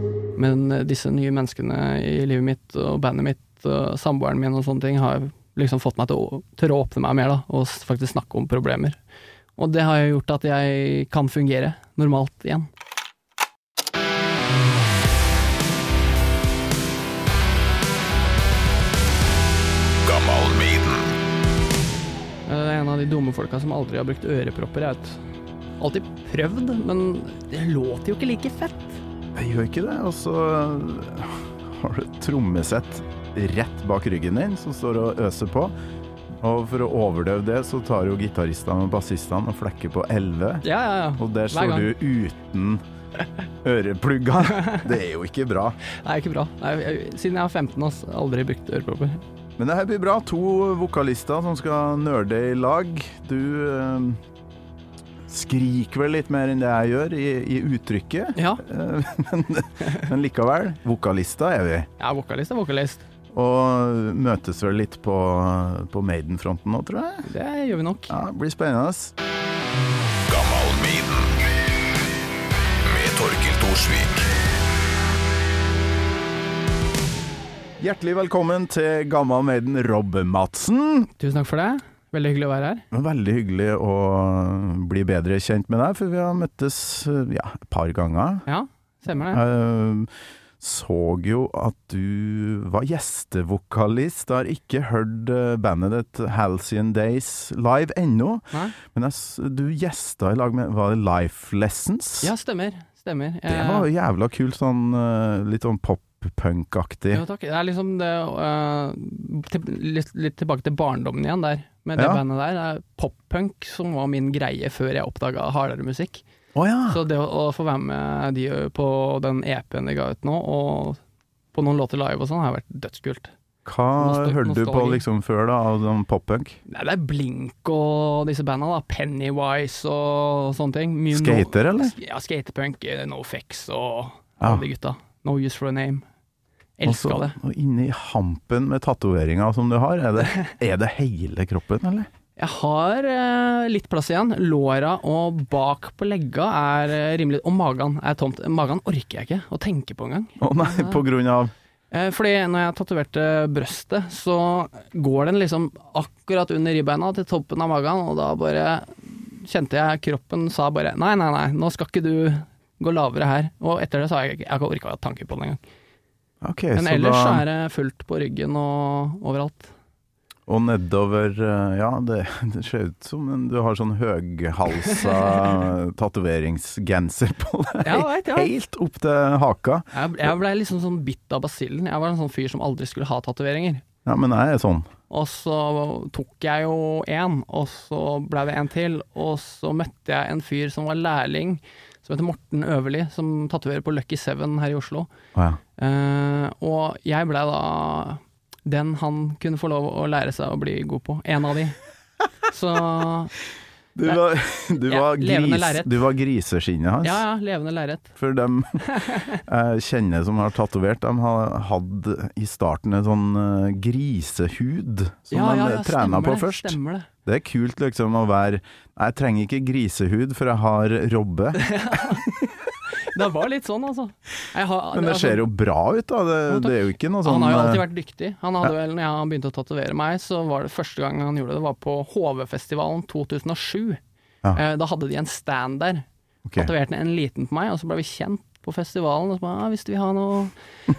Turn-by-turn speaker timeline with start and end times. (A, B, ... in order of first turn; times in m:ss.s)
0:00.4-0:09.0 A
0:09.6-0:12.7 A
0:20.0-0:21.1 B
0:22.5-0:25.2 A
0:25.8-0:29.0 A
0:29.3-0:35.7 C
0:36.4-0:40.7 C
0:40.6-0:41.9 A
0:41.2-0:42.8 C
0:43.6-0:45.8 C
0:44.5-0:44.8 A
0:46.0-0:49.2 A
0:49.6-0:54.2 C
0:55.3-1:01.9 C
0:58.4-0:58.6 A
1:02.0-1:03.0 A
1:03.3-1:07.3 C
1:07.2-1:08.1 A
1:08.1-1:09.2 C
1:10.2-1:11.4 B
1:12.8-1:14.3 B
1:17.8-1:21.1 C
1:21.2-1:22.8 A
1:22.9-1:28.4 C
1:28.5-1:29.4 A
1:29.3-1:30.1 C
1:30.6-1:42.3 C
1:42.2-1:43.9 A
1:43.5-1:47.2 C
1:47.1-1:56.2 A
1:52.0-1:52.2 C
1:56.6-1:57.0 C
1:56.9-2:01.0 A
2:01.5-2:03.3 A
2:03.6-2:06.6 C
2:04.0-2:05.0 A
2:06.7-2:16.0 A
2:11.1-2:12.0 C
2:16.8-2:17.4 A
2:16.8-2:22.1 C
2:22.4-2:31.0 A
2:30.4-2:31.5 C
2:31.9-2:45.6 A
2:46.4-2:47.5 C
2:46.8-2:49.7 A
2:50.5-2:59.9 C
2:54.9-2:55.4 A
2:57.8-2:58.5 A
2:59.9-3:03.8 A
3:04.1-3:04.9 C
3:05.1-3:15.1 A
3:15.4-3:15.6 C
3:15.8-3:21.8 A
3:22.5-3:23.4 A
3:24.0-3:27.2 C
3:24.8-3:26.1 A
3:27.0-3:28.2 A
3:28.2-3:28.9 C
3:28.9-3:29.4 A
3:29.4-3:41.6 C
3:35.3-3:37.1 A
3:41.6-3:42.3 A
3:43.0-3:45.5 A
3:44.9-3:47.8 C
3:46.5-3:54.0 A
3:54.5-3:56.1 A
3:56.4-3:56.7 C
3:56.6-4:00.5 A